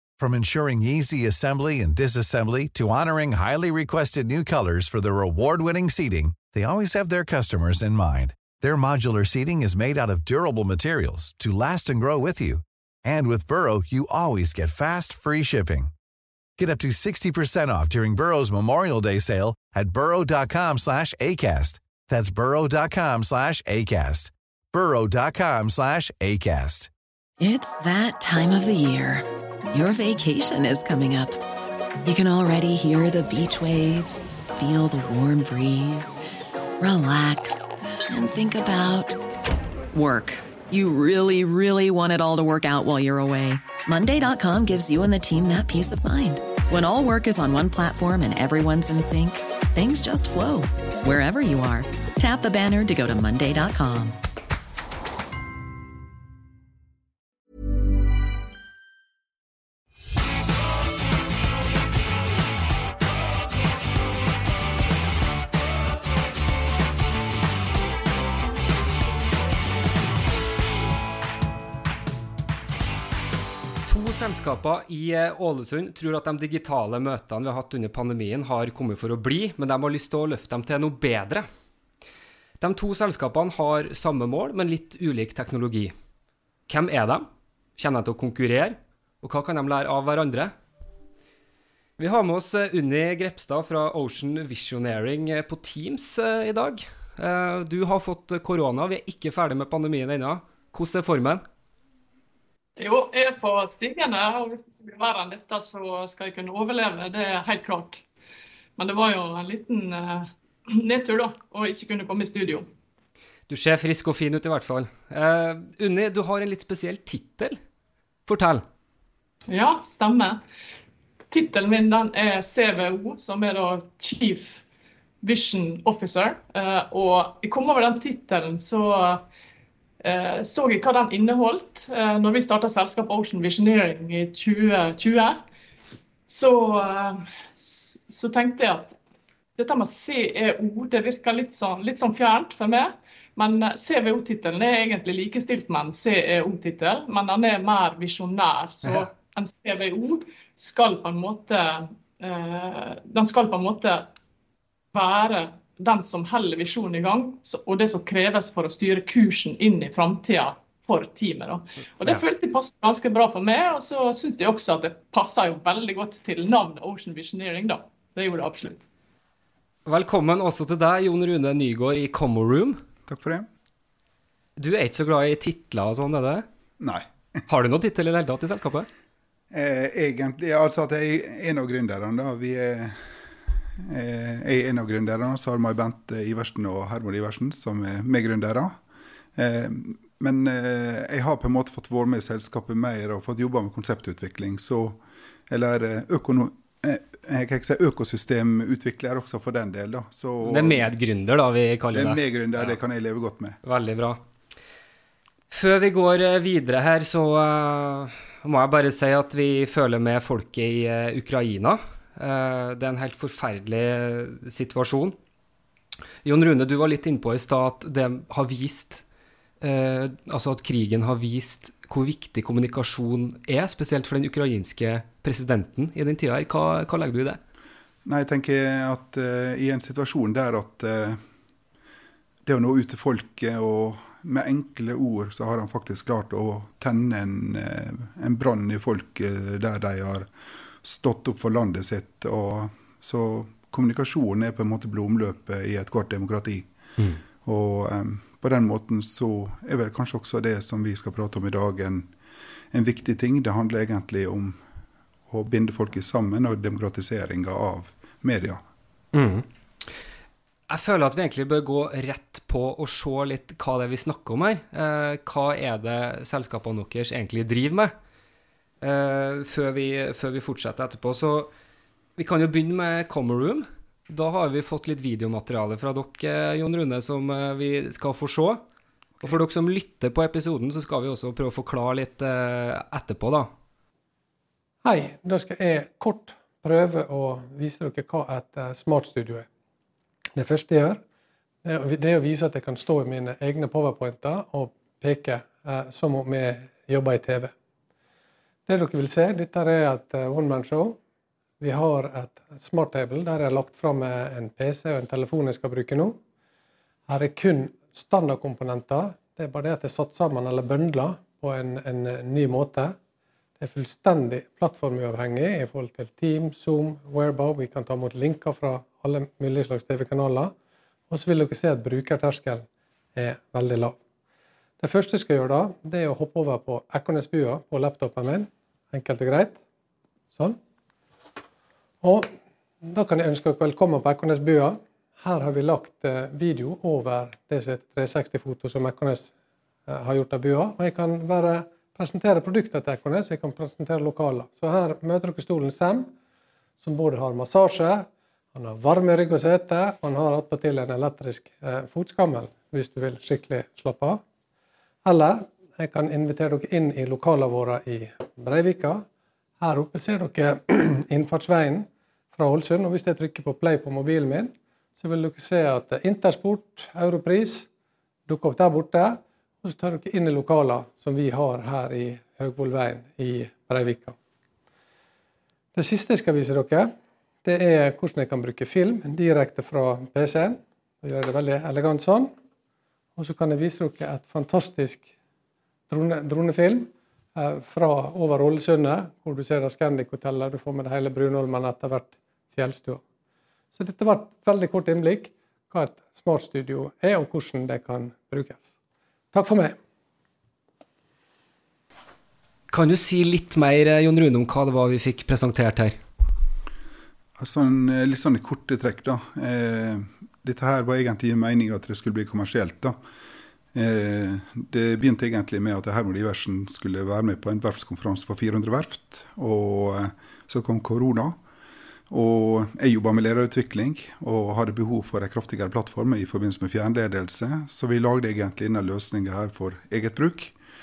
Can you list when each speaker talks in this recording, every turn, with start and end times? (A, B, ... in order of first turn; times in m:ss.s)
0:00.2-0:15.9 A
0:16.6-0:26.9 A
0:27.4-0:31.4 B
0:32.0-0:36.2 B
0:36.8-0:39.2 B
0:39.9-0:54.2 B
1:13.9-1:21.5 C
1:22.6-1:25.9 C
1:26.7-1:30.5 C
1:32.0-1:41.4 C
1:42.8-1:48.0 D
1:48.8-1:52.7 D
1:53.5-1:57.6 C
1:58.3-1:58.6 C
1:59.5-2:00.4 D
2:01.3-2:04.6 D
2:05.2-2:09.2 D
2:10.0-2:15.4 D
2:16.3-2:19.0 D
2:19.6-2:34.1 D
2:34.9-2:48.8 D
2:49.9-2:52.8 C
2:53.1-2:53.5 E
2:54.6-2:56.5 C
2:56.8-2:57.1 E
2:57.5-2:58.9 C
2:59.5-3:03.0 E
3:03.8-3:08.8 E
3:09.4-3:20.9 E
3:20.4-3:22.8 C
3:21.9-3:23.6 E
3:23.6-3:24.2 C
3:25.5-3:35.2 C
3:36.2-3:39.0 C
3:39.6-3:47.4 C
3:48.0-3:51.2 E
3:52.5-4:00.3 E
4:00.8-4:06.7 E
4:07.4-4:12.1 E
4:12.7-4:14.6 E
4:15.3-4:18.6 E
4:19.1-4:19.4 C
4:20.7-4:27.9 C
4:28.8-4:31.5 C
4:32.2-4:38.6 C
4:39.2-4:43.5 C
4:44.8-4:49.5 F
4:50.4-4:51.0 F
4:51.6-4:57.5 F
4:58.7-5:01.0 F
5:01.6-5:06.2 F
5:07.1-5:13.0 F
5:13.6-5:20.5 F
5:21.1-5:22.6 F
5:23.2-5:24.0 F
5:24.8-5:29.6 F
5:32.0-5:32.3 F
5:32.8-5:39.3 F
5:39.9-5:46.1 F
5:46.8-5:54.2 F
5:55.0-5:59.0 F
5:59.6-6:07.7 F
6:08.3-6:14.2 F
6:15.7-6:16.9 F
6:17.4-6:22.3 F
6:23.2-6:25.1 F
6:25.9-6:33.0 F
6:33.8-6:38.7 F
6:39.3-6:39.8 F
6:42.7-6:46.0 C
6:47.4-6:53.0 E
6:53.7-7:01.4 E
7:02.1-7:10.6 E